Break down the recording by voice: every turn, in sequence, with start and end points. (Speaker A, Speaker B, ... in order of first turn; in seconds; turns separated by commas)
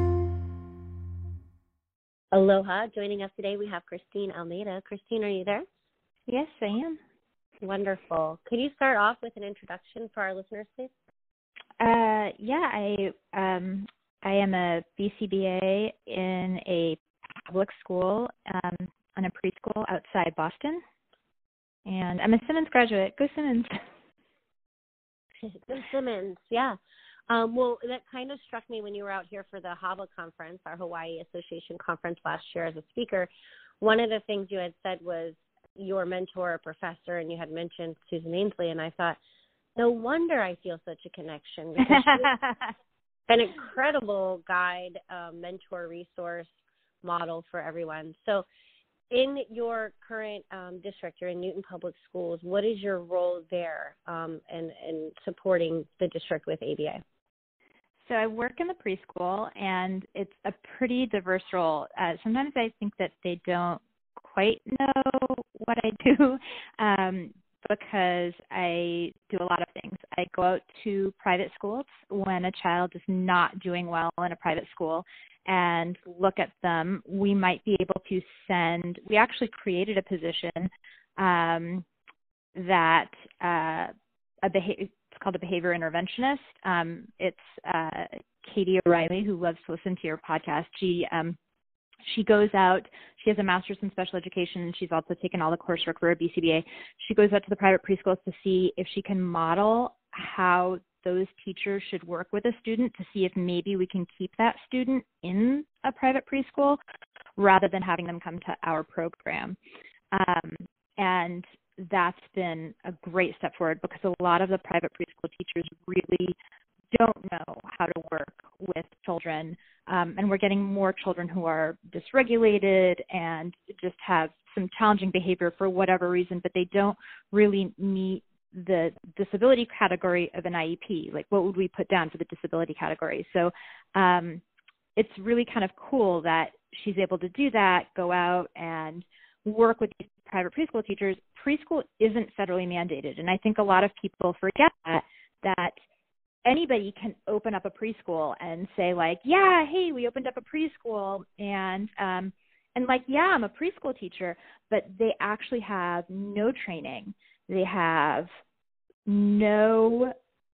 Speaker A: 2.3-5.6, Speaker B: 6.3-7.0, Speaker A: 7.6-10.9, Speaker B: 11.8-20.8, Speaker B: 21.9-23.7, Speaker A: 25.5-26.8, Speaker A: 27.3-33.3, Speaker A: 33.8-39.2, Speaker A: 39.8-42.3, Speaker B: 41.8-42.7, Speaker A: 43.3-46.5, Speaker A: 47.0-48.5, Speaker A: 49.1-57.0, Speaker B: 58.1-81.8, Speaker B: 82.5-83.9, Speaker B: 84.4-91.4, Speaker B: 92.1-106.8, Speaker B: 107.4-109.6, Speaker B: 110.1-116.4, Speaker B: 116.9-134.4, Speaker B: 135.0-145.8, Speaker B: 146.4-158.3, Speaker B: 159.1-160.1